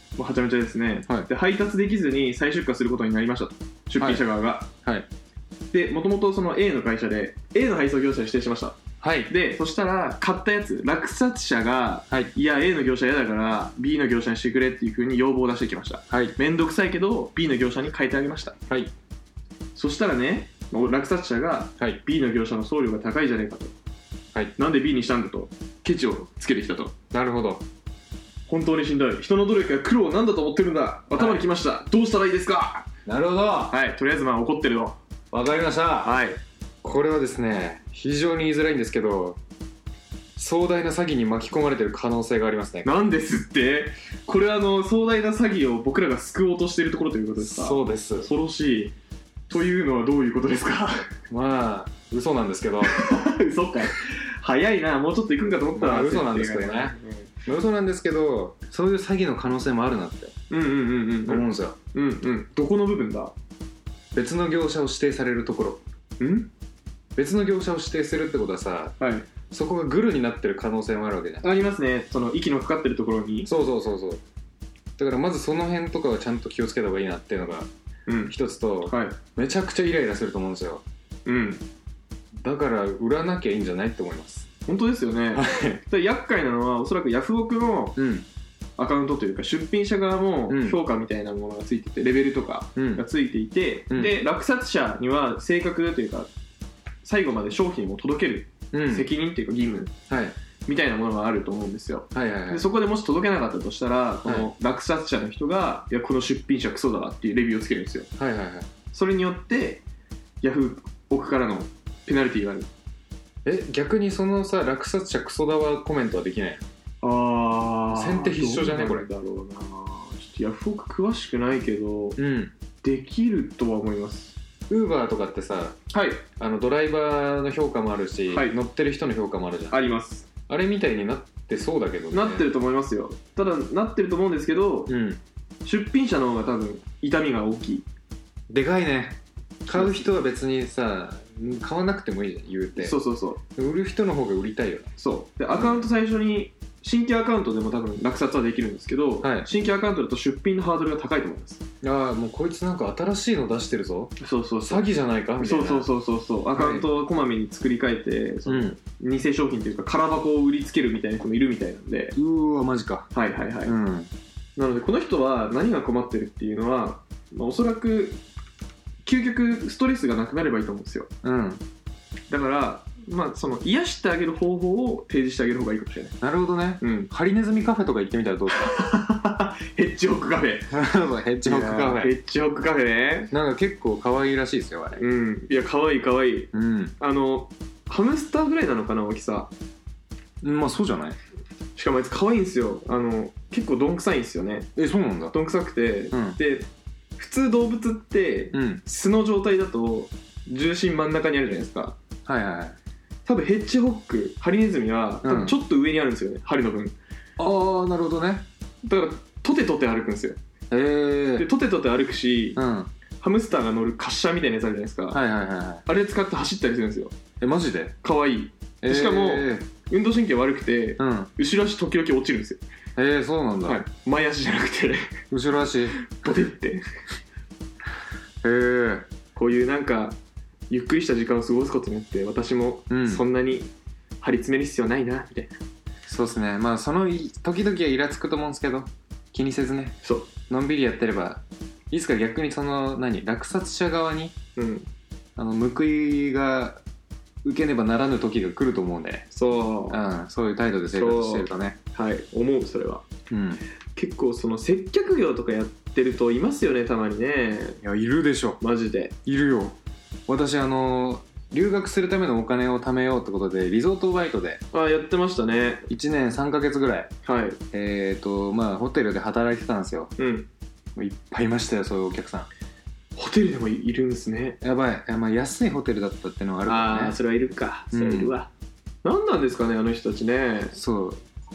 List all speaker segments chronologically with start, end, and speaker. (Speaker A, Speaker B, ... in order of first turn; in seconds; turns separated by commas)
Speaker A: 0.2-4.7, Speaker B: 4.0-4.2, Speaker A: 5.7-18.6, Speaker B: 9.0-9.3, Speaker B: 16.1-16.4, Speaker A: 19.7-23.7, Speaker A: 24.6-26.9, Speaker B: 27.1-27.6, Speaker A: 28.5-32.9, Speaker B: 31.1-31.4, Speaker B: 33.0-33.8, Speaker A: 33.7-35.0, Speaker B: 35.3-36.2, Speaker A: 36.0-36.4, Speaker B: 36.8-39.4, Speaker B: 40.4-42.9, Speaker A: 42.8-48.9, Speaker B: 47.4-48.3, Speaker A: 49.5-51.1, Speaker B: 51.3-53.3, Speaker A: 52.8-57.3, Speaker B: 55.8-60.3, Speaker A: 60.5-63.3, Speaker B: 61.3-61.8, Speaker B: 64.1-65.8, Speaker A: 66.2-66.5, Speaker B: 67.2-68.9, Speaker A: 69.0-69.3, Speaker B: 69.5-71.5, Speaker A: 71.4-73.5, Speaker B: 73.5-74.2, Speaker B: 75.0-77.7, Speaker A: 78.1-78.3, Speaker B: 78.3-80.8, Speaker A: 78.8-79.2, Speaker A: 81.2-81.6, Speaker B: 82.3-84.5, Speaker A: 84.7-88.0, Speaker B: 85.3-85.8, Speaker B: 88.0-88.2, Speaker A: 88.8-96.3, Speaker B: 90.5-90.8, Speaker B: 92.8-93.0, Speaker B: 93.9-94.2, Speaker A: 97.0-99.9, Speaker B: 98.7-99.1, Speaker B: 100.1-100.4, Speaker A: 100.7-108.1, Speaker B: 102.1-102.7, Speaker B: 108.2-108.7, Speaker A: 108.9-109.8, Speaker A: 110.4-112.7, Speaker B: 113.4-116.6, Speaker A: 117.0-122.2, Speaker B: 117.9-119.1, Speaker B: 122.2-122.5, Speaker A: 122.8-124.4, Speaker B: 124.7-125.8, Speaker A: 125.9-126.2, Speaker B: 126.3-129.8, Speaker A: 128.3-128.6, Speaker A: 129.7-130.3, Speaker B: 130.5-132.5, Speaker A: 132.1-134.9, Speaker B: 134.9-135.2, Speaker A: 135.6-137.8, Speaker B: 138.5-142.9, Speaker A: 139.7-140.1, Speaker A: 142.8-143.4, Speaker B: 143.6-144.9, Speaker A: 145.0-151.6, Speaker B: 145.5-145.9, Speaker B: 149.2-149.5, Speaker B: 151.8-155.9, Speaker A: 154.2-154.9, Speaker A: 155.4-162.2, Speaker B: 156.5-156.9, Speaker B: 158.4-158.8, Speaker B: 162.1-163.1, Speaker A: 163.1-163.8, Speaker B: 163.6-164.1, Speaker A: 164.6-168.2, Speaker A: 169.0-171.1, Speaker B: 171.2-171.6, Speaker A: 172.3-176.2, Speaker B: 176.2-178.8, Speaker A: 176.8-177.1, Speaker A: 178.7-180.7, Speaker B: 180.7-182.1, Speaker A: 181.4-183.3, Speaker B: 183.3-185.0, Speaker A: 185.0-189.5, Speaker B: 186.5-186.9, Speaker B: 190.4-191.2, Speaker A: 191.8-194.7, Speaker B: 194.8-195.3, Speaker A: 195.3-196.7, Speaker B: 196.1-196.4, Speaker A: 197.2-201.9, Speaker B: 198.5-198.8, Speaker B: 202.2-202.8, Speaker A: 203.2-206.9, Speaker B: 205.2-205.6, Speaker B: 207.4-208.4, Speaker A: 208.8-210.4, Speaker B: 210.7-211.5, Speaker A: 211.4-212.6, Speaker B: 212.6-212.9, Speaker A: 213.2-215.2, Speaker B: 215.1-215.8, Speaker A: 215.8-217.2, Speaker B: 217.4-217.9, Speaker A: 218.0-222.6, Speaker B: 218.8-219.7, Speaker B: 221.0-221.3, Speaker B: 222.9-223.8, Speaker A: 223.6-225.1, Speaker B: 225.3-226.0, Speaker A: 226.1-226.8, Speaker B: 228.4-229.1, Speaker A: 229.3-230.2, Speaker A: 230.7-233.7, Speaker B: 232.9-233.2, Speaker A: 234.2-235.5, Speaker B: 236.1-240.0, Speaker A: 240.0-240.3, Speaker B: 240.5-244.4, Speaker A: 244.6-244.9, Speaker B: 245.3-246.8, Speaker B: 247.4-249.3, Speaker A: 249.3-250.0, Speaker B: 249.9-251.8, Speaker A: 250.9-253.0, Speaker B: 253.3-253.6, Speaker A: 253.9-257.8, Speaker B: 257.8-258.6, Speaker A: 258.6-259.1, Speaker B: 259.2-259.8, Speaker B: 260.3-264.6, Speaker A: 264.7-265.9, Speaker B: 265.9-267.1, Speaker A: 267.2-267.6, Speaker B: 267.7-270.1, Speaker A: 270.2-270.5, Speaker B: 270.9-272.5, Speaker A: 273.1-274.6, Speaker B: 274.6-277.2, Speaker A: 276.6-278.5, Speaker B: 277.9-278.3, Speaker A: 279.0-280.8, Speaker B: 280.7-281.2